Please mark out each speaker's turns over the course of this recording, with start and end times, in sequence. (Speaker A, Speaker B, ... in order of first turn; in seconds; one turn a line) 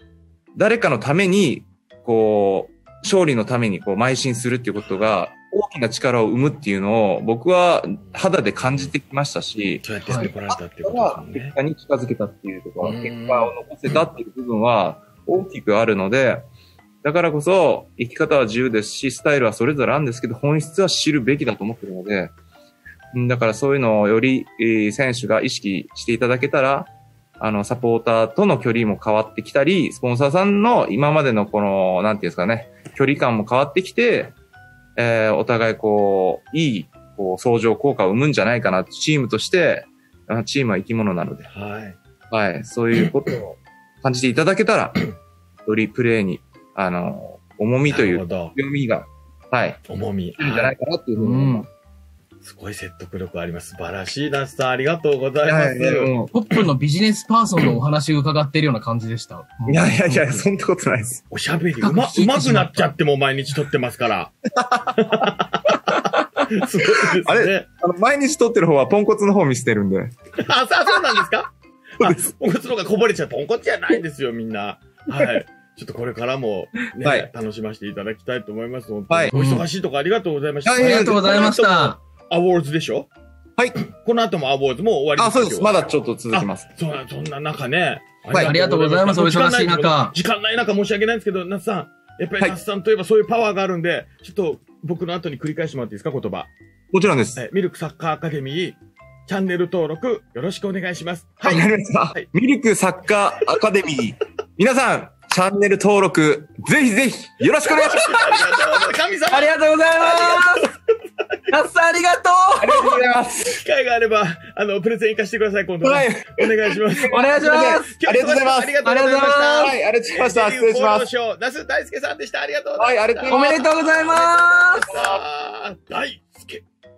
Speaker A: 0.6-16.5
Speaker B: 8.0-8.9
Speaker B: 9.8-11.6
Speaker B: 12.8-13.5
Speaker A: 17.0-22.3
Speaker A: 23.1-34.4
Speaker A: 35.0-41.5
Speaker B: 41.5-42.0
Speaker A: 42.3-45.1
Speaker A: 45.7-49.8
Speaker B: 47.9-48.5
Speaker B: 49.9-50.7
Speaker A: 50.4-51.7
Speaker C: 51.2-51.7
Speaker B: 52.4-56.1
Speaker A: 55.4-56.3
Speaker C: 56.3-60.4
Speaker A: 59.7-61.2
Speaker B: 61.3-64.3
Speaker C: 61.8-62.9
Speaker A: 64.6-65.7
Speaker B: 65.0-65.7
Speaker B: 66.5-67.7
Speaker A: 67.2-70.1
Speaker B: 70.4-83.1
Speaker A: 72.0-72.3
Speaker A: 77.0-77.3
Speaker C: 79.3-79.7
Speaker A: 80.7-81.3
Speaker C: 80.8-82.0
Speaker B: 83.8-96.5
Speaker A: 85.2-86.7
Speaker C: 88.4-90.2
Speaker A: 96.9-97.4
Speaker B: 97.4-102.3
Speaker A: 101.5-108.5
Speaker B: 107.7-110.7
Speaker C: 109.3-110.7
Speaker C: 111.5-112.9
Speaker A: 112.6-113.6
Speaker B: 113.6-123.5
Speaker A: 115.8-118.8
Speaker C: 117.1-117.9
Speaker C: 118.8-119.7
Speaker A: 119.6-121.1
Speaker A: 122.8-125.2
Speaker C: 123.3-124.9
Speaker B: 124.1-126.6